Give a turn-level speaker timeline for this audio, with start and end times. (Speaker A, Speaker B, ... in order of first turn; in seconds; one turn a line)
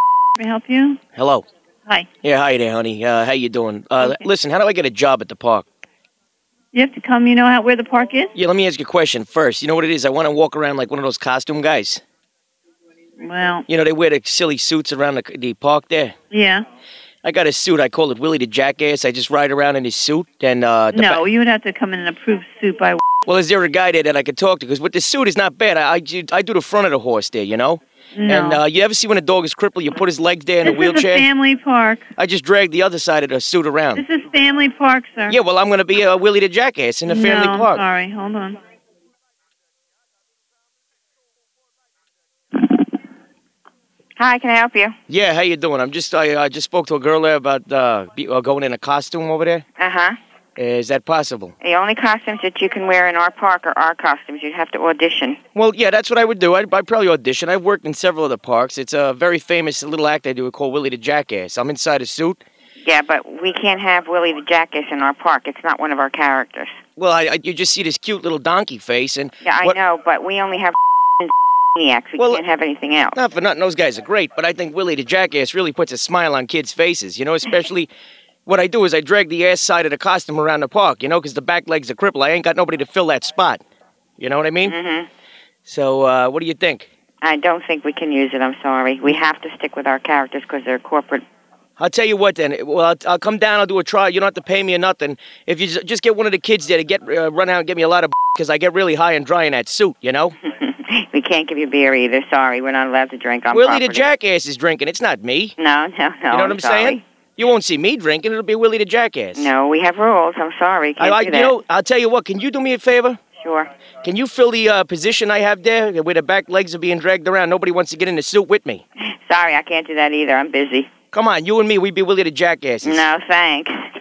Speaker A: 0.4-1.0
Speaker B: 1.1-1.4
Speaker B: 2.2-5.7
Speaker A: 6.7-8.3
Speaker B: 8.3-12.0
Speaker A: 13.2-13.7
Speaker B: 13.7-16.1
Speaker A: 16.3-16.6
Speaker B: 17.2-21.2
Speaker A: 20.9-23.0
Speaker B: 23.3-31.3
Speaker A: 28.1-28.6
Speaker A: 30.6-32.1
Speaker B: 32.2-34.0
Speaker A: 34.0-35.4
Speaker B: 35.3-37.8
Speaker A: 37.1-38.6
Speaker C: 44.2-45.0
Speaker B: 45.1-49.6
Speaker C: 49.8-50.2
Speaker B: 50.6-51.5
Speaker C: 51.6-55.4
Speaker B: 55.5-62.4
Speaker C: 62.8-66.8
Speaker B: 67.0-69.8
Speaker C: 69.4-73.2
Speaker B: 72.2-72.4
Speaker B: 73.2-77.9
Speaker B: 78.5-83.6
Speaker B: 84.2-84.8
Speaker C: 84.6-85.1
Speaker B: 85.7-86.9
Speaker C: 87.2-91.2
Speaker B: 91.8-100.4
Speaker C: 100.4-104.1
Speaker B: 103.5-105.6
Speaker C: 105.6-107.0
Speaker B: 106.3-109.5
Speaker C: 109.3-111.5
Speaker B: 111.0-113.2
Speaker C: 113.4-113.7
Speaker B: 114.0-118.8
Speaker C: 119.0-120.9
Speaker B: 121.1-123.1
Speaker C: 122.8-123.8